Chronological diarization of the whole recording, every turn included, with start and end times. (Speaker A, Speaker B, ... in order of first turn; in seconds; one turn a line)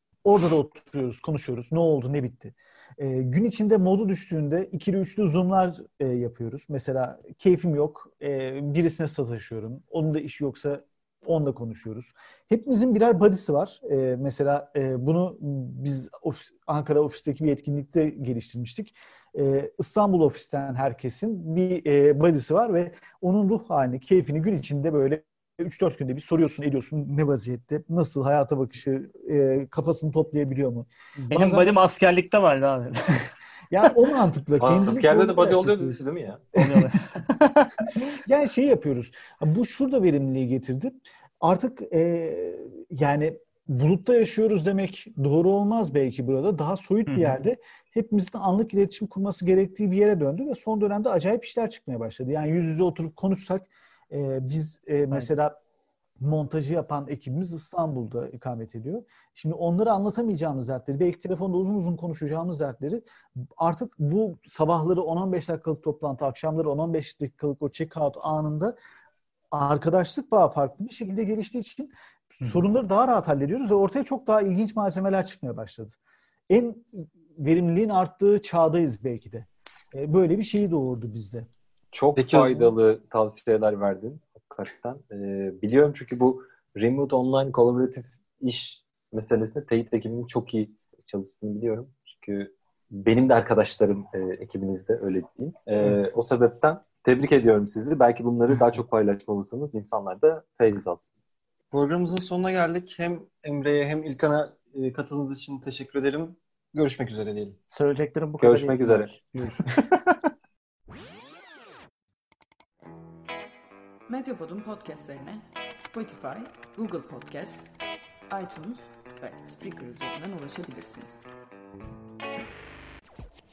Speaker A: 0.2-31.8
Speaker B: 31.2-33.3
Speaker A: 33.7-36.0
Speaker C: 34.6-36.4
Speaker A: 36.5-36.9
Speaker B: 36.5-37.8
Speaker A: 38.2-55.6
Speaker B: 47.1-47.4
Speaker A: 56.2-68.7
Speaker A: 69.5-76.0
Speaker A: 76.5-81.5
Speaker C: 81.9-101.1
Speaker D: 82.2-82.7
Speaker A: 95.8-96.1
Speaker D: 101.7-107.6
Speaker B: 107.7-110.2
Speaker C: 108.4-109.1
Speaker E: 114.1-117.7
Speaker E: 118.3-121.3